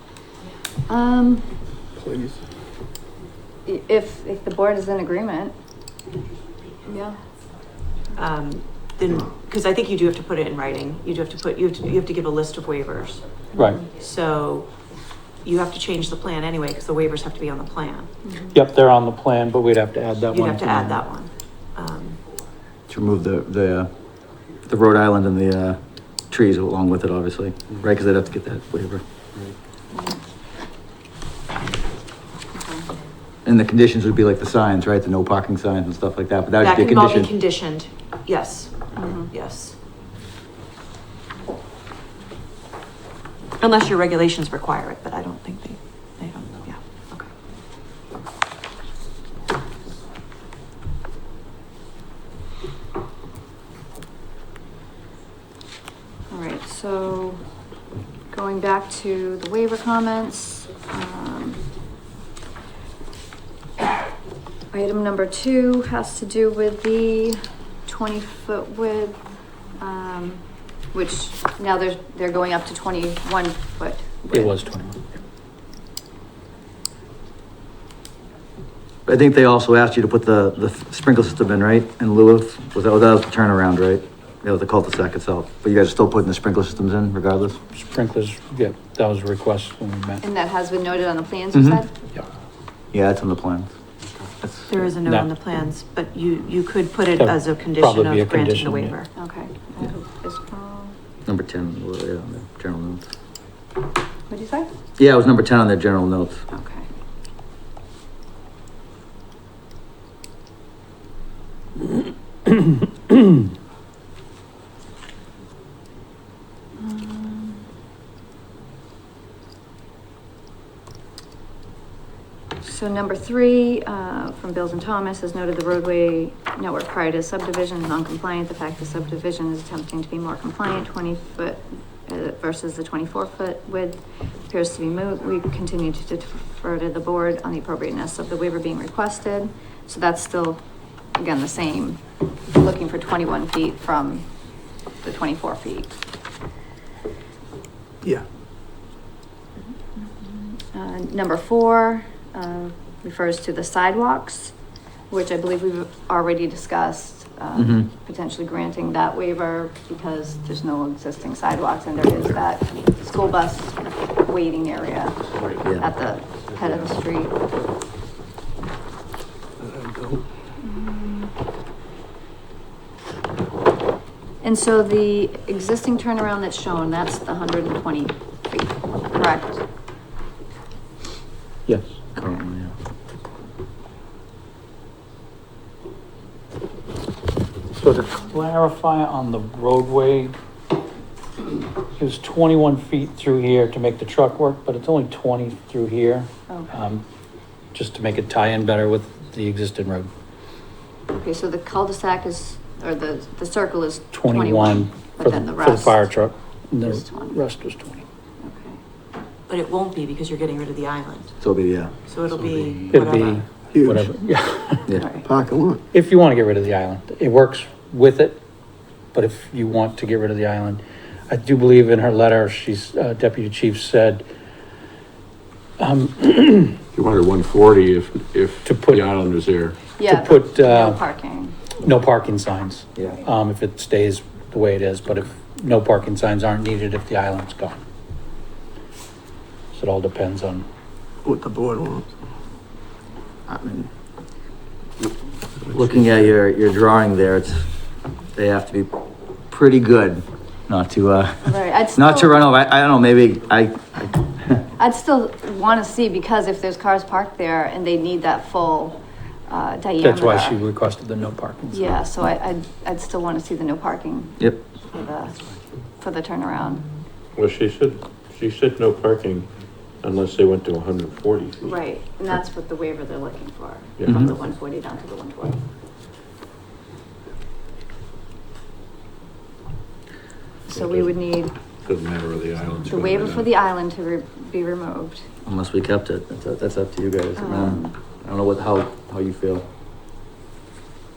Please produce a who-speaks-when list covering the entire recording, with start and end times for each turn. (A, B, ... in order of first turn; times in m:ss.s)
0:00.9-0:01.6 A
0:02.0-0:02.4 B
0:03.6-0:05.5 A
0:06.8-0:07.2 A
0:08.2-0:13.3 C
0:13.5-0:13.8 D
0:13.5-0:13.8 A
0:13.9-0:14.7 C
0:15.4-0:18.1 C
0:18.2-0:18.6 A
0:18.5-0:21.0 D
0:20.3-0:22.2 C
0:22.9-0:23.9 E
0:24.6-0:29.0 E
0:32.5-0:32.9 A
0:33.4-0:37.3 E
0:36.6-0:39.8 C
0:38.9-0:39.3 A
0:43.6-0:47.2 C
0:56.3-0:57.4 A
0:58.3-1:01.6 A
1:04.7-1:09.2 A
1:09.8-1:14.6 A
1:14.3-1:15.0 D
1:19.0-1:27.6 E
1:27.7-1:30.2 D
1:30.2-1:31.9 A
1:31.5-1:31.8 E
1:32.9-1:33.7 E
1:34.4-1:34.7 E
1:34.7-1:39.1 C
1:37.2-1:39.0 D
1:39.1-1:41.0 A
1:41.2-1:43.1 E
1:44.3-1:44.7 A
1:45.0-1:46.4 E
1:46.5-1:46.9 A
1:52.5-1:53.2 D
1:56.8-1:57.6 A
2:02.6-2:20.6 A
2:21.2-2:24.3 A
2:25.0-2:25.9 A
2:30.0-2:34.5 A
2:35.1-2:45.2 A
2:37.6-2:37.9 E
2:45.8-2:47.3 A
2:49.6-2:50.2 B
2:50.6-2:51.3 A
2:54.4-2:59.6 A
3:01.7-3:02.0 D
3:02.2-3:02.7 E
3:07.8-3:10.3 D
3:12.0-3:17.0 D
3:16.5-3:16.7 A
3:17.7-3:20.1 D
3:21.1-3:26.1 A
3:24.1-3:28.0 D
3:26.8-3:27.4 A
3:28.4-3:28.8 A
3:29.5-3:31.3 C
3:31.4-3:31.9 E
3:32.1-3:33.4 C
3:32.9-3:34.9 D
3:33.7-3:34.1 B
3:35.2-3:35.8 B
3:35.9-3:38.4 D
3:39.1-3:44.2 D
3:45.8-3:46.8 D
3:46.9-3:49.8 F
3:48.6-3:49.0 D
3:50.0-3:51.6 A
3:50.0-3:51.0 D
3:51.8-3:57.8 D
3:59.7-4:00.6 D
4:01.2-4:02.1 B
4:03.5-4:03.9 E
4:05.7-4:07.7 E
4:08.3-4:08.9 E
4:09.5-4:14.6 E
4:11.4-4:12.4 A
4:14.8-4:20.6 A
4:20.0-4:22.0 D
4:21.7-4:25.3 A
4:26.0-4:26.8 A
4:27.3-4:29.5 F
4:30.0-4:31.8 F
4:31.6-4:35.6 A
4:34.0-4:34.2 F
4:34.0-4:34.3 E
4:40.7-4:41.5 A
4:40.7-4:41.1 F
4:41.8-4:43.5 F
4:42.9-4:45.2 A
4:45.4-4:49.6 E
4:47.4-4:47.9 A